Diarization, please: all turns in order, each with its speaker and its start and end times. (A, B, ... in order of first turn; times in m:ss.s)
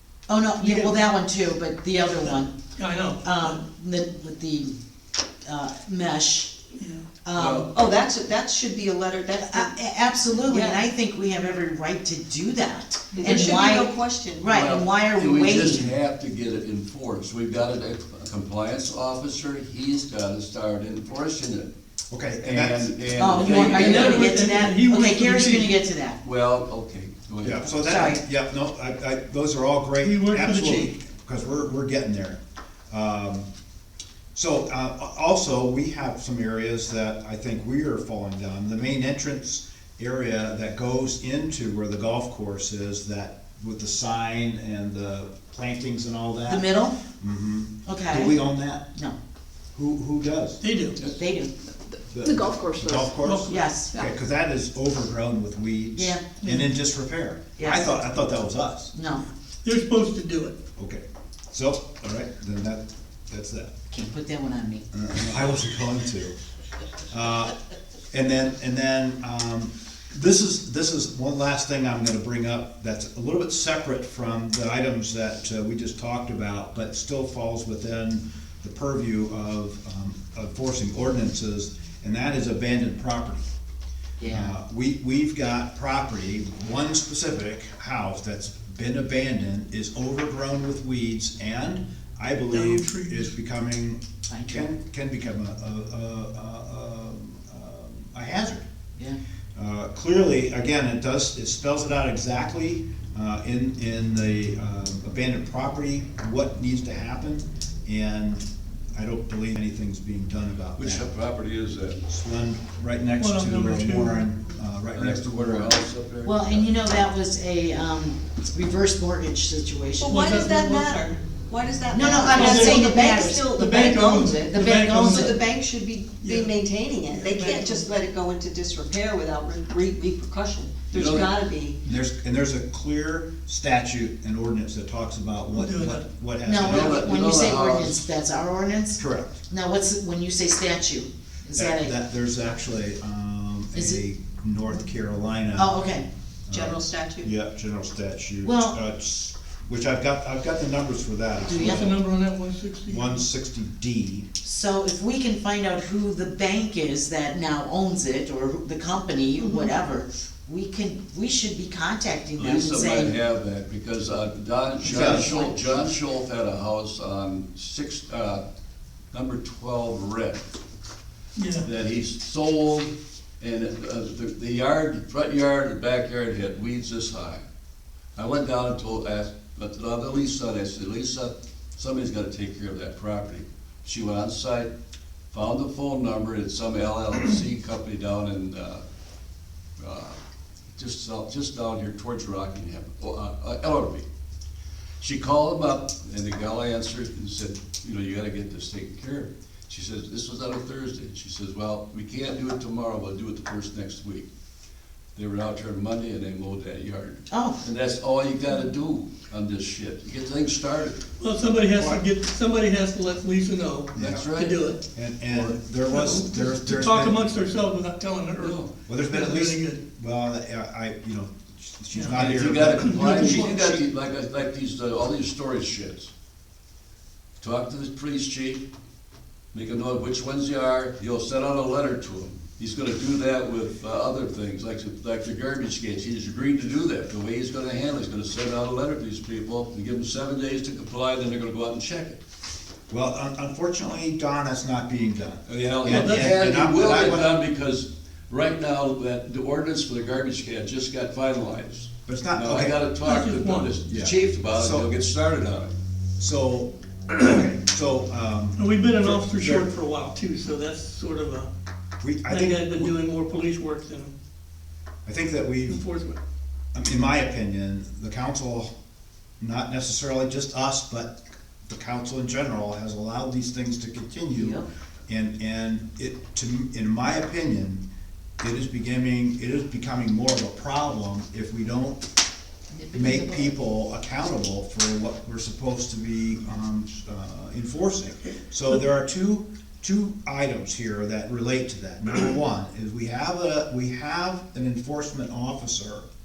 0:00.3-0:02.5 A
0:00.6-0:01.0 B
0:02.7-0:03.5 B
0:03.2-0:04.7 A
0:05.4-0:06.5 A
0:06.8-0:07.0 B
0:07.2-0:07.7 A
0:07.4-0:07.7 C
0:07.6-0:09.7 D
0:09.4-0:15.9 A
0:10.3-0:10.8 D
0:13.1-0:14.6 D
0:14.5-0:21.7 C
0:22.1-0:23.0 E
0:22.4-0:24.3 C
0:23.2-0:26.2 A
0:23.5-0:25.7 B
0:26.2-0:27.8 C
0:27.4-0:32.4 E
0:27.7-0:28.2 A
0:30.0-0:30.9 B
0:32.9-0:33.5 E
0:34.3-0:48.9 E
0:46.5-0:47.0 A
0:47.8-0:48.4 A
0:49.7-0:50.6 E
0:50.6-0:51.0 B
0:51.2-0:51.5 A
0:52.1-0:58.9 E
0:52.2-0:53.2 D
0:53.2-0:53.7 B
0:53.5-0:53.9 A
0:56.0-0:56.2 A
0:56.4-0:56.7 B
0:57.6-0:57.8 A
0:58.9-0:59.3 A
0:59.6-1:00.5 B
1:00.8-1:03.7 E
1:03.9-1:04.8 A
1:04.9-1:06.3 E
1:07.1-1:07.5 E
1:08.1-1:23.4 E
1:24.2-1:24.5 A
1:24.3-1:38.6 E
1:32.5-1:33.3 B
1:34.3-1:34.6 A
1:39.5-1:51.1 E
1:50.8-1:52.0 C
1:52.1-1:55.8 E
1:53.2-1:54.2 B
1:54.9-1:56.8 C
1:56.2-2:00.3 A
2:00.0-2:11.8 D
2:00.0-2:01.1 B
2:01.9-2:03.8 A
2:02.2-2:05.4 B
2:04.4-2:05.4 A
2:06.2-2:06.5 B
2:07.1-2:07.8 B
2:10.9-2:11.3 C
2:11.8-2:17.1 E
2:15.6-2:16.0 B
2:16.4-2:21.9 A
2:16.6-2:18.1 C
2:19.0-2:19.4 E
2:21.5-2:25.8 E
2:23.7-2:24.0 A
2:25.6-2:26.0 A
2:26.5-2:31.9 E
2:26.5-2:27.3 D
2:28.4-2:28.8 A
2:31.4-2:31.9 A
2:31.6-2:33.2 B
2:32.9-2:34.3 E
2:34.4-2:43.1 A
2:39.4-2:39.7 D
2:42.4-2:48.4 C
2:44.8-2:45.3 E
2:44.8-2:45.5 A
2:49.1-2:50.4 C
2:51.4-2:51.7 B
2:51.6-2:57.4 C
2:58.2-3:04.7 C
3:05.3-3:08.8 C
3:09.8-3:10.2 C
3:10.7-3:14.0 C
3:15.0-3:24.3 C
3:25.1-3:31.0 C
3:27.3-3:27.6 A
3:31.2-3:34.8 B
3:31.8-3:32.0 E
3:33.9-3:34.2 E
3:33.9-3:35.6 C
3:34.9-3:37.2 E
3:35.9-3:39.8 B
3:38.4-3:38.7 C
3:38.9-3:43.4 E
3:41.9-3:43.8 B
3:42.1-3:46.1 C
3:47.4-3:48.6 C
3:49.5-4:02.2 C
4:02.9-4:07.3 E
4:05.4-4:15.7 C
4:05.9-4:06.3 B
4:12.0-4:12.8 E
4:13.0-4:13.7 B
4:13.9-4:14.9 E
4:16.2-4:19.7 E
4:18.6-4:21.5 B
4:22.0-4:23.0 E
4:22.3-4:24.1 B
4:25.0-4:25.8 E
4:25.7-4:26.2 B
4:26.7-4:28.7 E
4:29.4-4:37.8 E
4:34.3-4:34.7 A
4:38.4-4:42.0 E
4:42.8-4:43.4 A
4:42.9-4:56.0 E